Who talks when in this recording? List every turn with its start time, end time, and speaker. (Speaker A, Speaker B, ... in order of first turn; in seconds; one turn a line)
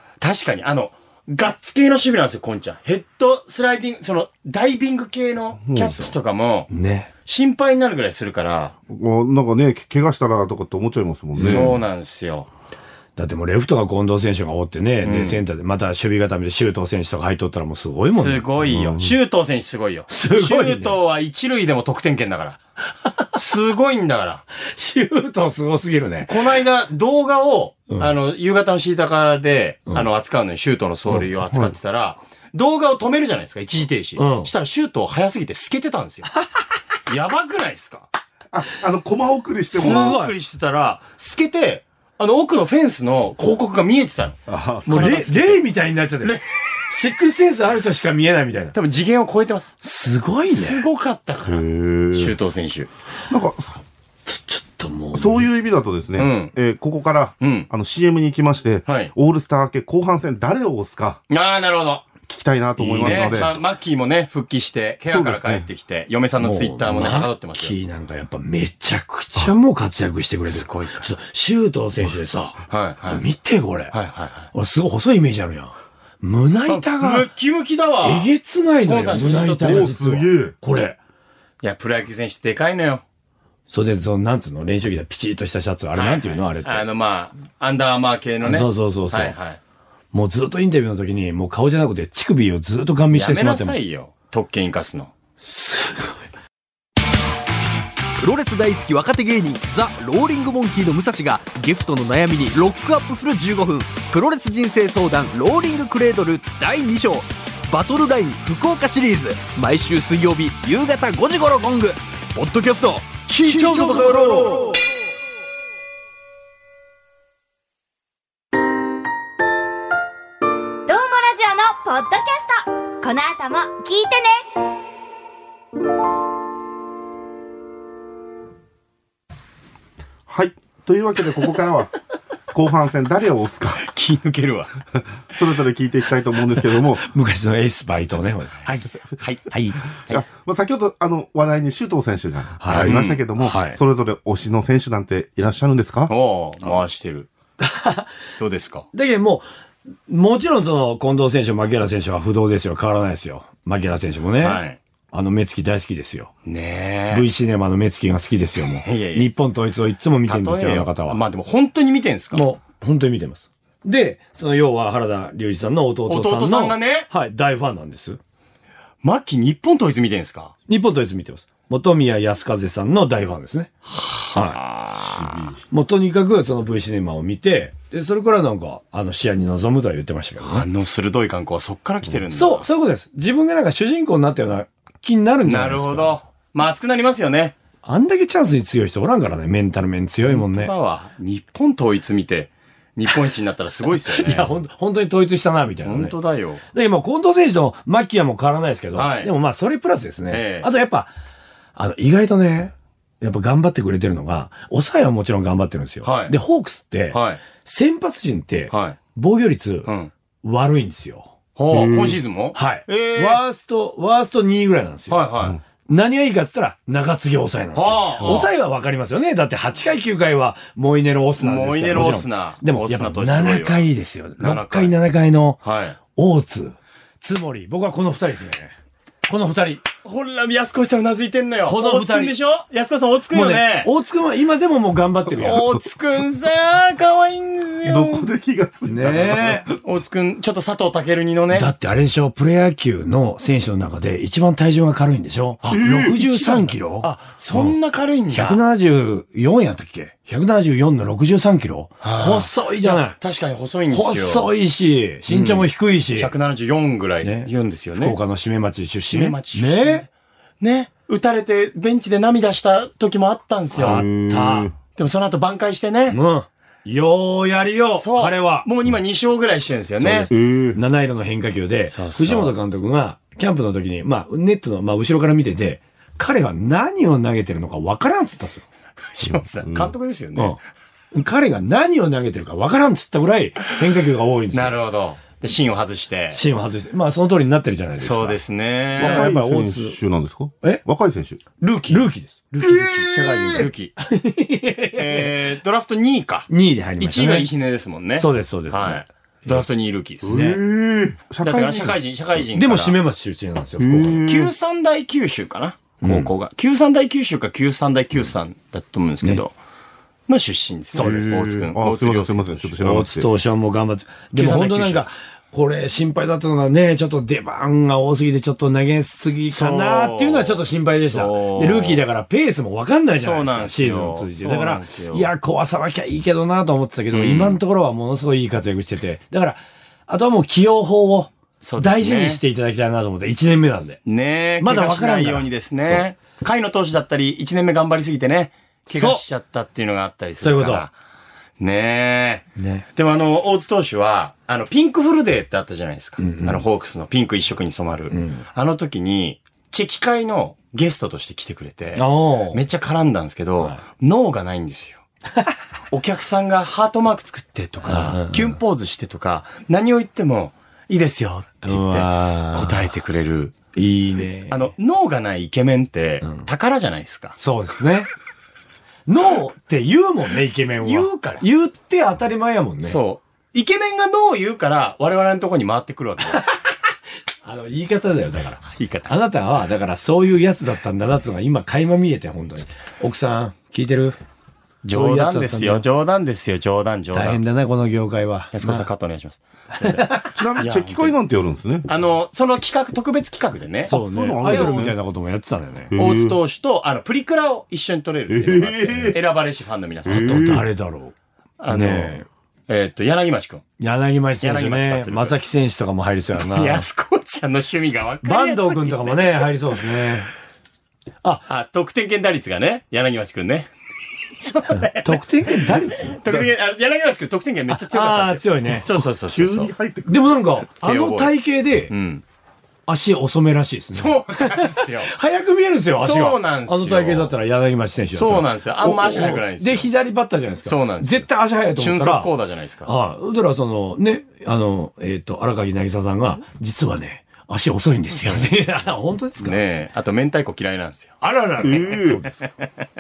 Speaker A: 0.2-6.7
Speaker B: 5.6-6.1
Speaker C: 6.7-7.1
Speaker A: 7.3-8.8
Speaker B: 8.9-11.8
Speaker A: 11.4-12.5
Speaker C: 11.4-11.7
Speaker C: 13.2-18.4
Speaker A: 15.0-15.4
Speaker A: 18.1-22.6
Speaker B: 18.6-19.1
Speaker C: 20.1-21.0
Speaker A: 23.3-24.4
Speaker C: 24.6-26.4
Speaker A: 26.3-36.3
Speaker C: 34.2-34.5
Speaker A: 37.1-38.1
Speaker B: 38.5-40.2
Speaker A: 39.8-45.6
Speaker C: 39.8-40.3
Speaker B: 44.5-45.2
Speaker C: 44.9-48.8
Speaker A: 46.2-46.8
Speaker A: 48.7-49.8
Speaker C: 49.8-50.8
Speaker A: 50.5-52.9
Speaker B: 51.5-52.4
Speaker B: 53.3-53.8
Speaker C: 54.3-55.5
Speaker B: 55.1-61.2
Speaker A: 56.2-56.5
Speaker A: 57.4-57.7
Speaker A: 58.9-59.1
Speaker A: 61.3-62.1
Speaker B: 62.3-63.6
Speaker A: 62.8-67.8
Speaker C: 63.0-63.5
Speaker B: 65.1-65.7
Speaker C: 66.4-73.9
Speaker A: 70.5-71.1
Speaker A: 72.7-73.2
Speaker A: 73.9-74.5
Speaker C: 74.5-77.3
Speaker A: 76.7-78.3
Speaker C: 78.0-81.0
Speaker A: 78.8-79.9
Speaker B: 79.6-80.6
Speaker A: 81.6-83.0
Speaker C: 83.7-86.8
Speaker A: 85.9-89.6
Speaker C: 88.4-89.4
Speaker C: 90.1-93.8
Speaker A: 93.1-95.1
Speaker C: 95.4-96.2
Speaker D: 98.2-114.8
Speaker B: 113.4-114.2
Speaker E: 120.9-124.5
Speaker B: 130.3-131.9
Speaker B: 132.5-133.9
Speaker A: 133.8-134.7
Speaker B: 135.3-137.1
Speaker C: 137.0-138.9
Speaker A: 139.2-140.2
Speaker C: 139.5-139.8
Speaker B: 140.1-146.1
Speaker C: 142.6-143.8
Speaker A: 142.7-143.2
Speaker A: 146.1-147.3
Speaker C: 147.6-148.2
Speaker A: 148.4-148.9
Speaker C: 148.9-149.5
Speaker C: 150.1-154.6
Speaker A: 154.4-154.8
Speaker C: 155.1-156.3
Speaker A: 156.4-157.3
Speaker C: 157.1-161.2
Speaker A: 158.7-159.3
Speaker A: 160.3-162.4
Speaker C: 162.3-168.2
Speaker A: 166.1-167.1
Speaker A: 169.0-170.5
Speaker C: 170.7-173.7
Speaker A: 173.9-175.5
Speaker C: 174.3-174.6
Speaker B: 175.1-175.6
Speaker C: 175.7-180.7
Speaker A: 180.4-182.7
Speaker C: 182.3-186.2
Speaker A: 185.4-187.6
Speaker C: 187.8-190.7
Speaker A: 190.2-194.5
Speaker C: 194.1-196.2
Speaker A: 195.8-196.6
Speaker C: 196.7-201.1
Speaker A: 198.9-199.3
Speaker A: 200.3-200.7
Speaker C: 201.8-209.9
Speaker A: 206.0-206.4
Speaker A: 207.1-207.4
Speaker A: 208.7-209.0
Speaker A: 209.9-210.1
Speaker C: 210.4-211.3
Speaker A: 211.6-213.4
Speaker B: 211.7-212.2
Speaker C: 212.5-215.2
Speaker A: 215.1-215.6
Speaker C: 215.9-225.6
Speaker A: 217.8-218.5
Speaker B: 218.2-218.5
Speaker A: 221.4-223.9
Speaker A: 224.4-224.9
Speaker A: 225.6-226.0
Speaker C: 226.2-228.7
Speaker C: 229.3-229.8
Speaker A: 230.0-233.9
Speaker C: 231.7-232.3
Speaker C: 233.3-235.7
Speaker A: 235.4-238.3
Speaker B: 235.4-235.8
Speaker B: 237.8-239.8
Speaker C: 238.9-239.7
Speaker A: 239.8-241.7
Speaker C: 241.5-247.8
Speaker A: 245.6-248.6
Speaker B: 245.7-246.2
Speaker C: 248.3-253.2
Speaker A: 252.0-254.5
Speaker C: 253.9-256.3
Speaker A: 255.3-258.2
Speaker C: 257.2-260.1
Speaker A: 259.1-260.1
Speaker A: 260.6-264.1
Speaker C: 263.8-264.7
Speaker B: 263.8-264.7
Speaker A: 265.0-266.2
Speaker C: 266.1-268.7
Speaker A: 268.0-270.3
Speaker C: 270.0-278.6
Speaker B: 270.3-270.8
Speaker A: 271.9-272.5
Speaker A: 279.1-280.6
Speaker B: 279.2-279.9
Speaker C: 281.1-284.8
Speaker A: 284.5-286.4
Speaker C: 286.3-288.4
Speaker A: 288.0-289.3
Speaker C: 289.0-290.0
Speaker B: 289.0-291.4
Speaker C: 291.6-295.3
Speaker B: 292.6-293.7
Speaker A: 293.5-293.9
Speaker A: 294.9-300.3
Speaker C: 296.5-297.5
Speaker C: 298.1-299.6
Speaker B: 300.2-302.0
Speaker C: 300.3-300.6
Speaker A: 301.4-303.0
Speaker C: 302.5-304.3
Speaker B: 303.8-304.5
Speaker A: 304.1-309.5
Speaker C: 306.0-306.3
Speaker A: 310.3-312.7
Speaker C: 310.9-311.6
Speaker B: 311.0-313.3
Speaker C: 312.8-334.0
Speaker A: 314.3-315.1
Speaker A: 319.5-322.0
Speaker A: 323.2-325.3
Speaker A: 327.1-327.6
Speaker A: 331.6-332.4
Speaker A: 334.1-340.9
Speaker C: 334.6-336.1
Speaker C: 338.9-339.2
Speaker C: 340.4-340.9
Speaker A: 341.6-355.0
Speaker C: 342.6-342.9
Speaker C: 346.2-346.6
Speaker C: 348.1-348.4
Speaker C: 352.0-352.6
Speaker A: 355.9-363.6
Speaker C: 357.9-358.6
Speaker C: 361.6-362.9
Speaker C: 363.8-364.7
Speaker A: 364.5-367.4
Speaker C: 367.4-368.1
Speaker C: 369.1-373.0
Speaker A: 370.8-371.4
Speaker A: 372.8-376.6
Speaker C: 377.4-384.2
Speaker A: 378.7-379.1
Speaker A: 384.9-387.4
Speaker C: 384.9-385.9
Speaker C: 387.1-388.9
Speaker A: 388.5-391.1
Speaker C: 389.8-390.3
Speaker B: 390.3-391.9
Speaker A: 391.9-394.9
Speaker B: 393.9-395.0
Speaker C: 393.9-395.9
Speaker B: 395.9-396.4
Speaker A: 396.0-400.5
Speaker B: 398.3-399.2
Speaker B: 400.1-400.6
Speaker C: 400.1-401.1
Speaker A: 401.6-402.2
Speaker C: 401.7-402.3
Speaker A: 402.7-403.7
Speaker C: 403.8-406.9
Speaker A: 404.4-405.4
Speaker A: 406.4-409.8
Speaker C: 408.2-410.3
Speaker A: 411.5-413.7
Speaker A: 414.4-419.7
Speaker C: 414.8-416.2
Speaker C: 417.7-418.9
Speaker B: 419.3-420.4
Speaker C: 420.1-421.9
Speaker A: 420.8-421.4
Speaker A: 421.9-422.2
Speaker C: 422.9-432.3
Speaker A: 423.9-425.1
Speaker A: 426.0-427.4
Speaker A: 428.1-429.9
Speaker A: 430.6-432.9
Speaker C: 432.9-439.7
Speaker A: 438.1-438.8
Speaker A: 439.4-441.2
Speaker C: 441.2-442.3
Speaker B: 441.6-442.2
Speaker A: 441.7-442.9